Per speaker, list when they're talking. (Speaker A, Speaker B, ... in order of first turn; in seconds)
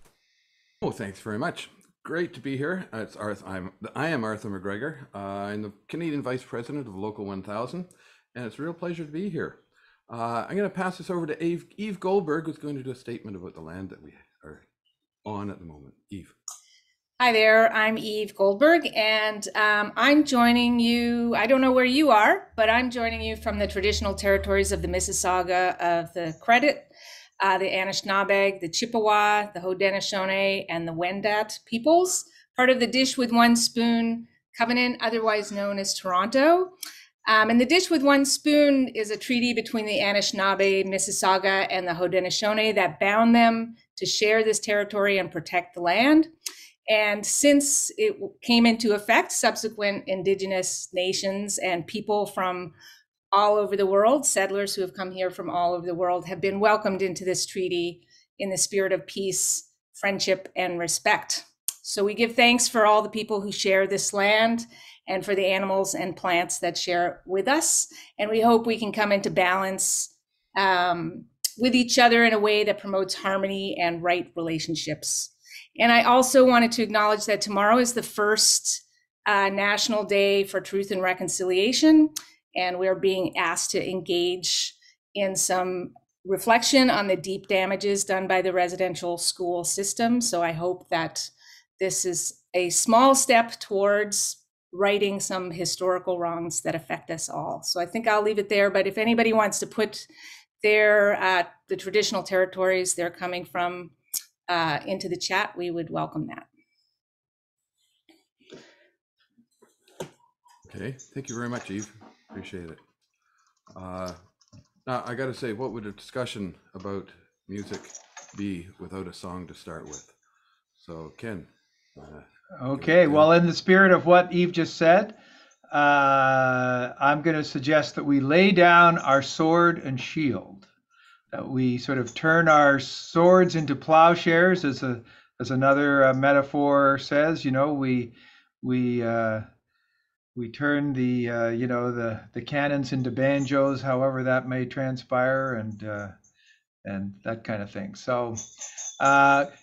Speaker A: 0.8-9.6, 10.1-14.6, 15.2-16.3, 110.7-112.8, 113.7-114.2, 114.8-120.1, 120.8-122.2, 122.8-123.3
Speaker B: 17.2-26.9, 27.4-36.7, 37.3-46.3, 46.9-52.7, 53.3-100.1, 100.6-103.9, 104.5-106.4
Speaker C: 122.6-125.1, 125.7-130.7, 131.3-139.4, 140.3-146.1, 146.8-148.4, 149.0-149.5